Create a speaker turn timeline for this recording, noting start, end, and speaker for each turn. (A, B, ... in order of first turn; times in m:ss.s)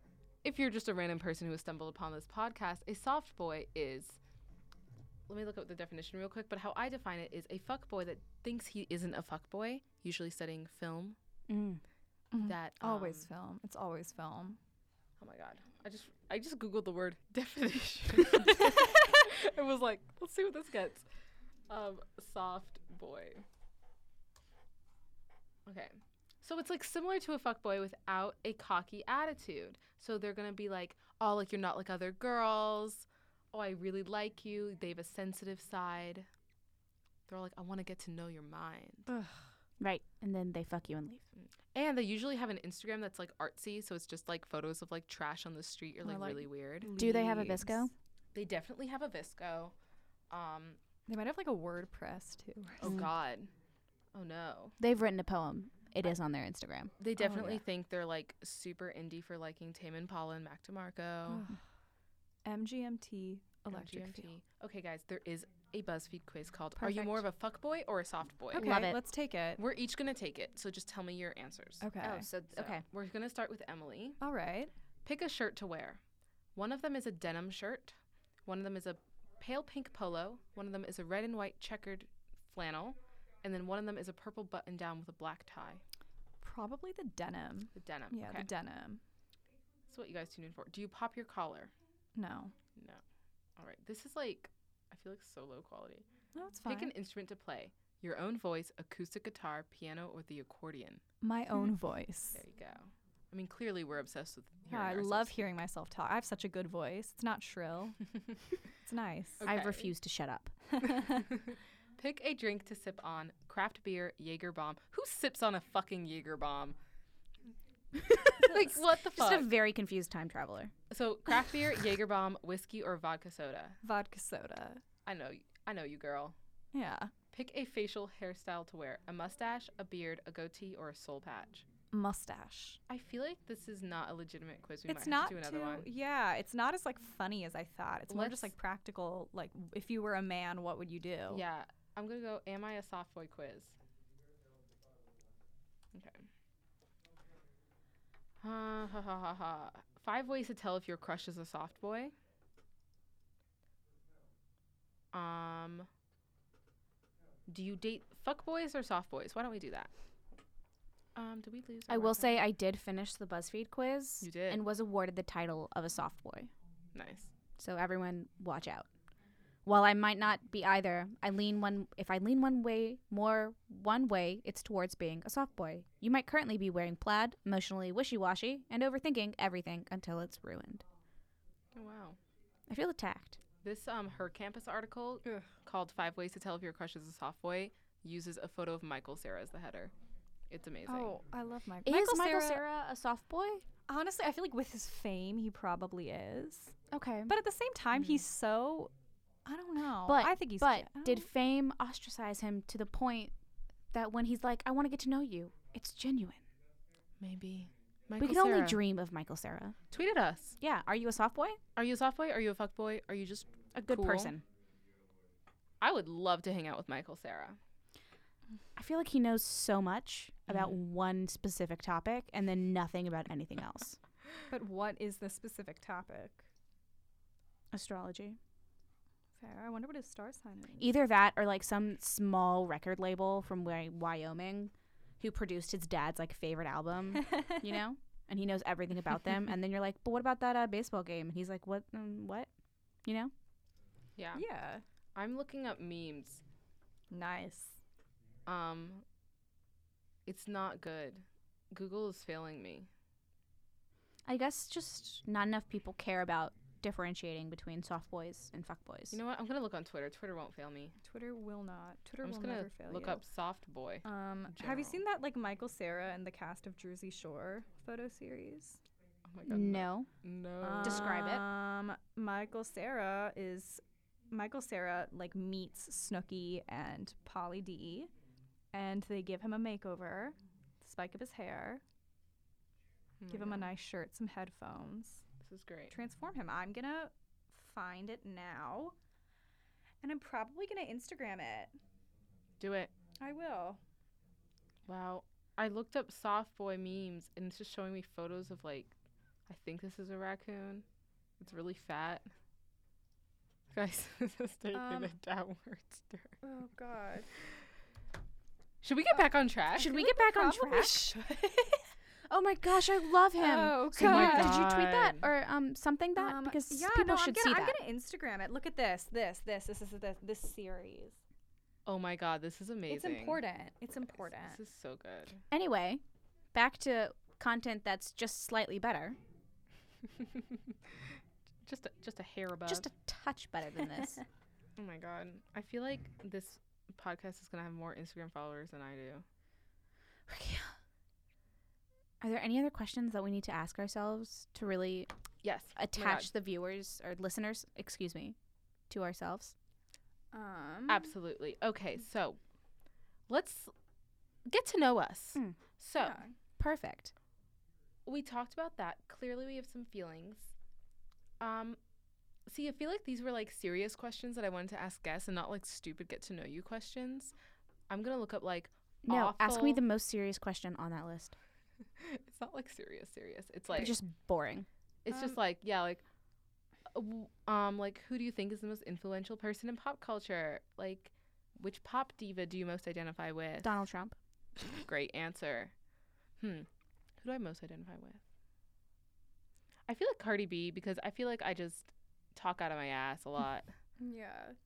0:00.4-0:04.2 A
0:05.3-0:11.2 A
0:11.5-0:11.8 B
0:12.3-0:14.6 C
0:12.4-0:13.3 A
0:15.2-0:21.0 A
0:21.7-0:23.4 A
0:25.6-0:36.3 A
0:37.3-0:39.1 A
0:39.1-0:39.5 C
0:39.8-0:41.2 B
0:41.4-0:46.9 A
0:46.0-0:47.9 C
0:46.9-0:47.9 B
0:48.3-0:49.7 A
0:50.3-0:50.8 A
0:51.1-0:53.0 C
0:52.8-0:53.5 A
0:54.1-0:54.8 A
0:54.8-0:57.4 B
0:57.0-1:01.5 A
0:57.2-0:57.6 C
1:01.3-1:01.6 C
1:02.4-1:04.3 C
1:03.7-1:08.8 A
1:06.8-1:07.1 C
1:08.5-1:09.6 C
1:08.6-1:09.0 B
1:09.6-1:11.8 A
1:11.8-1:12.3 C
1:12.0-1:12.8 B
1:12.5-1:14.2 A
1:14.2-1:14.7 C
1:15.0-1:16.0 A
1:16.6-1:25.8 A
1:26.4-1:29.0 C
1:27.7-1:28.5 A
1:29.9-1:31.7 A
1:32.2-1:32.5 C
1:32.8-1:33.0 A
1:33.6-1:36.0 A
1:36.3-1:36.9 C
1:36.6-1:41.0 A
1:41.2-1:42.4 C
1:42.3-1:45.3 A
1:44.7-1:49.4 C
1:49.4-1:49.9 A
1:49.4-1:50.5 B
1:50.8-1:51.2 C
1:51.0-1:56.8 A
1:57.9-2:00.7 B
1:58.4-1:59.5 A
2:00.9-2:03.8 A
2:03.8-2:04.8 C
2:05.0-2:06.4 A
2:06.7-2:07.1 C
2:07.3-2:11.6 A
2:11.9-2:12.8 C
2:12.9-2:15.9 A
2:14.9-2:21.4 C
2:18.1-2:18.5 A
2:21.3-2:23.8 A
2:25.9-2:26.2 A
2:28.4-2:32.1 A
2:35.1-2:35.9 A
2:37.5-2:39.9 A
2:41.1-2:42.4 A
2:41.9-2:46.5 B
2:44.2-2:44.6 A
2:46.9-2:47.3 A
2:47.6-2:48.9 B
2:49.6-3:00.8 B
3:01.7-3:02.2 A
3:02.7-3:03.4 B
3:03.6-3:09.9 A
3:10.5-3:11.2 A
3:10.9-3:12.6 C
3:11.8-3:13.6 B
3:13.9-3:16.8 C
3:16.9-3:17.3 B
3:17.3-3:18.9 C
3:17.9-3:18.2 A
3:19.4-3:21.3 C
3:20.0-3:23.3 B
3:23.9-3:26.4 B
3:27.2-3:28.8 A
3:28.2-3:29.8 B
3:29.9-3:30.6 A
3:30.6-3:31.6 B
3:31.8-3:34.3 A
3:33.7-3:34.4 B
3:35.8-3:37.6 A
3:38.8-3:44.0 B
3:40.5-3:40.7 A
3:44.5-3:46.5 C
3:47.7-3:48.4 B
3:49.4-3:50.9 C
3:50.8-4:02.5 B
4:03.0-4:03.3 B
4:04.2-4:04.4 A
4:04.3-4:04.8 C
4:05.1-4:06.4 A
4:07.1-4:07.8 C
4:08.5-4:09.0 A
4:10.2-4:12.9 A
4:14.2-4:19.2 B
4:19.1-4:21.0 A
4:21.0-4:23.2 C
4:22.2-4:25.0 A
4:24.0-4:28.8 C
4:29.3-4:31.2 A
4:29.4-4:30.1 B
4:30.6-4:38.1 C
4:30.8-4:31.4 B
4:38.7-4:41.8 C
4:43.2-4:43.7 A
4:43.3-4:45.2 C
4:45.4-4:45.9 A
4:45.9-4:48.9 C
4:50.0-4:51.8 C
4:52.6-4:52.9 A
4:53.2-4:53.8 C
4:54.9-4:58.9 A
4:59.5-5:00.8 A
5:01.4-5:02.3 A
5:03.7-5:06.4 A
5:04.7-5:05.1 C
5:06.4-5:07.3 C
5:08.8-5:09.9 A
5:09.8-5:11.1 B
5:09.8-5:11.9 C
5:12.3-5:17.8 B
5:13.4-5:14.6 C
5:13.9-5:15.2 A
5:16.2-5:21.2 C
5:21.8-5:23.4 A
5:22.9-5:24.6 C
5:24.2-5:25.4 A
5:25.5-5:26.0 B
5:26.5-5:29.2 B
5:30.2-5:30.6 A
5:31.6-5:32.9 A
5:32.7-5:34.2 B
5:34.8-5:39.2 A
5:40.3-5:40.7 B
5:42.2-5:45.1 B
5:45.4-5:46.3 A
5:45.8-5:48.4 B
5:48.9-5:49.5 B
5:50.3-5:51.1 C
5:50.9-5:52.4 A
5:53.3-5:53.7 A
5:54.4-5:56.2 A
5:56.0-5:56.3 C
5:56.6-5:57.1 B
5:58.0-6:00.5 A
6:01.4-6:01.8 A
6:02.4-6:07.3 A
6:07.9-6:09.8 A
6:09.0-6:11.3 B
6:12.0-6:14.0 A
6:13.7-6:14.7 B
6:15.0-6:16.0 A
6:16.9-6:23.7 A
6:23.6-6:24.2 B
6:24.8-6:25.7 A
6:26.4-6:26.7 A
6:27.2-6:28.2 A
6:29.9-6:33.7 A
6:34.0-6:34.6 C